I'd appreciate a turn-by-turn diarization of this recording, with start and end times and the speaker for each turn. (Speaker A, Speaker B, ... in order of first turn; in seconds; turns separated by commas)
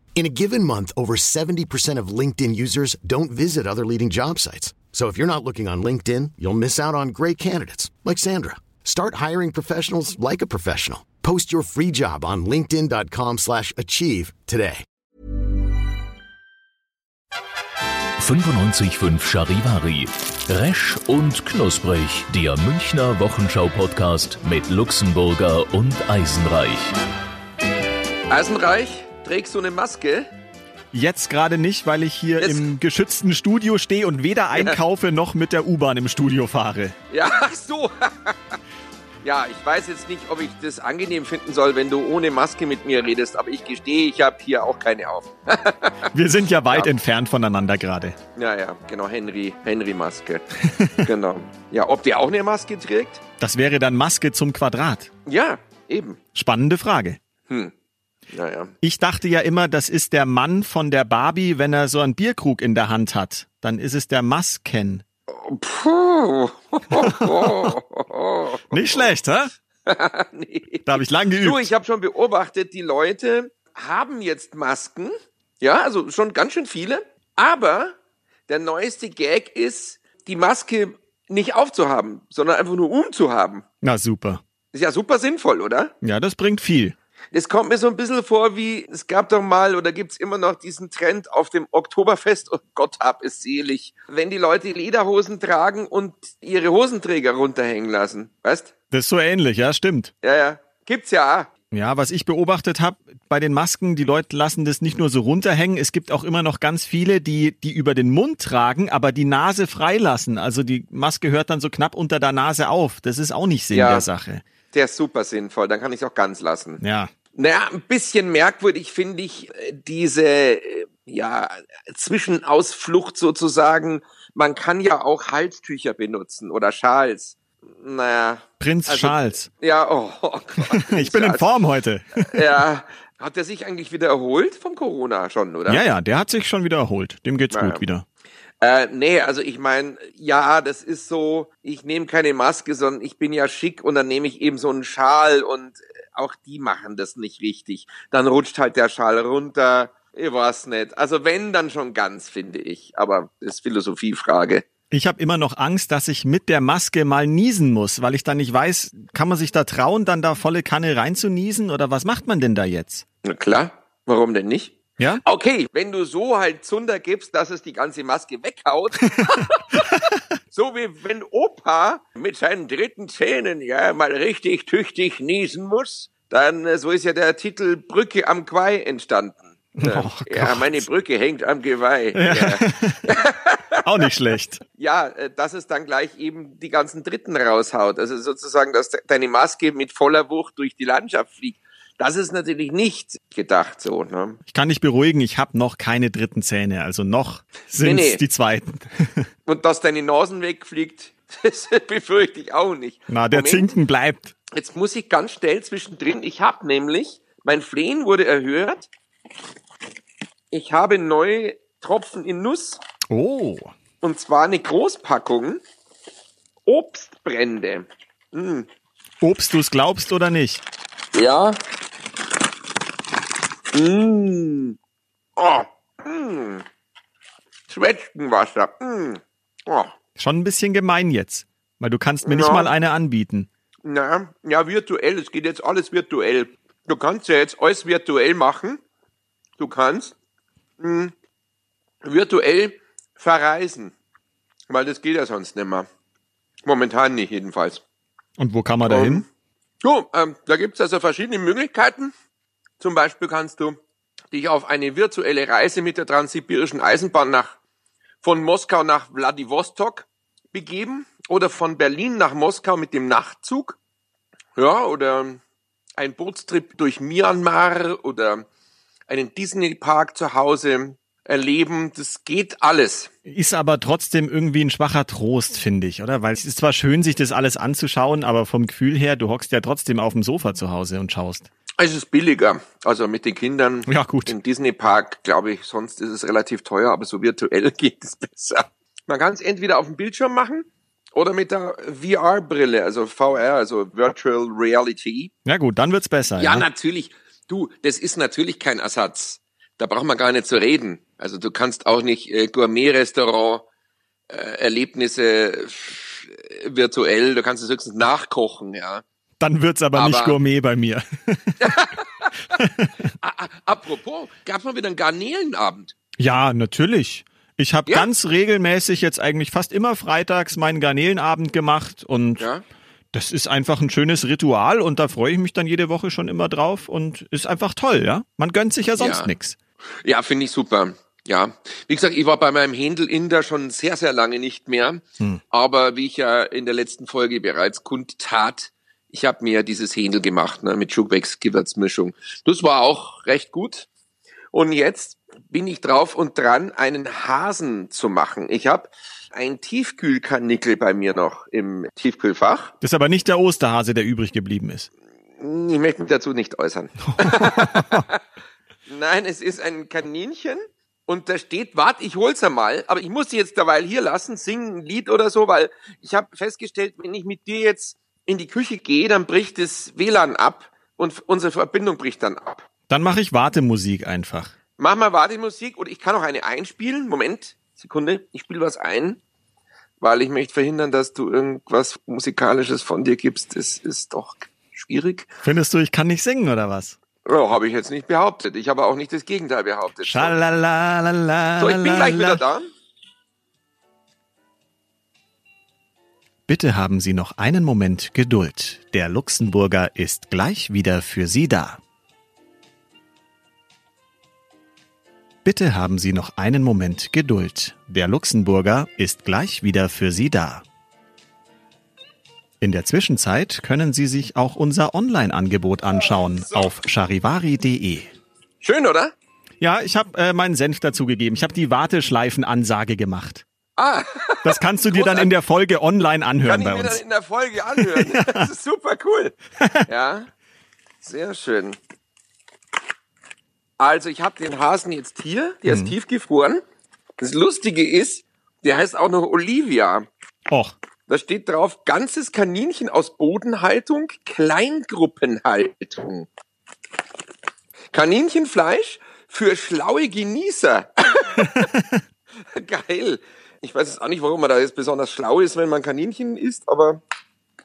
Speaker A: 0.2-14.8, Speaker B: 18.2-26.9, Speaker C: 28.3-30.3, Speaker D: 30.9-37.0, Speaker C: 37.1-38.6, Speaker C: 39.2-46.1, Speaker D: 46.1-48.2, Speaker C: 48.4-53.2, Speaker D: 50.6-51.0, Speaker D: 53.4-55.1, Speaker C: 55.3-56.2, Speaker D: 56.4-57.2, Speaker C: 57.5-57.7, Speaker C: 58.3-58.7, Speaker D: 58.8-65.0, Speaker C: 65.3-69.1, Speaker D: 67.0-67.7, Speaker D: 68.7-69.5, Speaker C: 69.9-78.0, Speaker D: 70.9-71.7, Speaker C: 78.5-83.7, Speaker D: 83.8-84.4, Speaker C: 84.7-85.9, Speaker D: 86.0-87.0, Speaker C: 87.3-98.7, Speaker D: 98.9-100.1, Speaker C: 100.2-101.5, Speaker D: 101.7-114.4, Speaker C: 113.7-114.1, Speaker C: 114.7-116.8, Speaker D: 116.8-117.1, Speaker C: 117.3-131.5, Speaker D: 128.6-129.5, Speaker D: 130.7-132.6, Speaker C: 132.2-135.8, Speaker D: 135.7-138.0, Speaker C: 137.5-137.8, Speaker C: 138.6-154.7, Speaker D: 154.9-163.0, Speaker C: 163.2-183.8, Speaker D: 165.0-165.2, Speaker D: 179.8-180.8, Speaker D: 182.2-183.1, Speaker D: 183.8-184.6, Speaker C: 184.8-194.4, Speaker D: 194.5-199.3, Speaker C: 197.8-198.2, Speaker C: 199.5-203.7, Speaker D: 203.1-204.3, Speaker C: 204.5-208.9, Speaker C: 210.5-212.8, Speaker D: 213.1-213.7, Speaker C: 214.0-215.6, Speaker C: 216.7-218.7, Speaker D: 219.2-220.6, Speaker C: 221.1-221.6, Speaker C: 223.7-224.8, Speaker C: 225.4-226.7, Speaker C: 227.7-229.9, Speaker D: 230.2-233.5, Speaker C: 232.2-232.7, Speaker C: 233.8-238.8, Speaker C: 239.6-240.1, Speaker C: 240.8-241.1, Speaker C: 242.0-243.9, Speaker C: 244.7-245.9, Speaker C: 246.6-247.8, Speaker D: 248.4-249.2, Speaker C: 248.9-249.3, Speaker C: 249.8-252.1, Speaker C: 252.8-253.8, Speaker C: 254.3-257.6, Speaker C: 258.2-263.8, Speaker C: 264.6-265.4, Speaker C: 266.0-268.5, Speaker C: 269.1-273.1, Speaker D: 273.3-281.5, Speaker C: 281.8-295.3, Speaker D: 283.9-284.3, Speaker D: 295.5-296.6, Speaker C: 296.4-303.6, Speaker C: 304.3-309.0, Speaker D: 309.4-311.7, Speaker C: 309.9-310.4, Speaker C: 311.6-312.6, Speaker D: 312.6-312.9, Speaker C: 313.2-315.9, Speaker D: 316.2-322.5, Speaker D: 323.1-329.6, Speaker C: 329.0-329.3, Speaker C: 330.0-343.9, Speaker C: 344.5-352.7, Speaker D: 352.8-354.9, Speaker C: 355.4-358.2, Speaker D: 357.2-358.0, Speaker C: 358.9-372.7, Speaker D: 372.9-374.5, Speaker C: 374.8-379.2, Speaker C: 380.0-385.3, Speaker D: 385.4-387.0, Speaker C: 387.2-390.4, Speaker D: 390.0-392.4, Speaker C: 391.6-392.7, Speaker D: 396.5-401.8, Speaker D: 405.4-410.6, Speaker D: 412.6-418.1, Speaker C: 418.6-419.1, Speaker D: 419.6-423.4, Speaker C: 423.8-425.3, Speaker D: 424.4-427.0, Speaker C: 426.4-430.3, Speaker D: 427.8-428.5, Speaker C: 431.0-431.8, Speaker C: 433.8-436.6, Speaker D: 435.7-435.9, Speaker C: 437.2-440.1, Speaker D: 440.5-440.8, Speaker C: 441.1-446.3, Speaker C: 447.9-451.7, Speaker D: 451.6-451.9, Speaker C: 452.5-457.0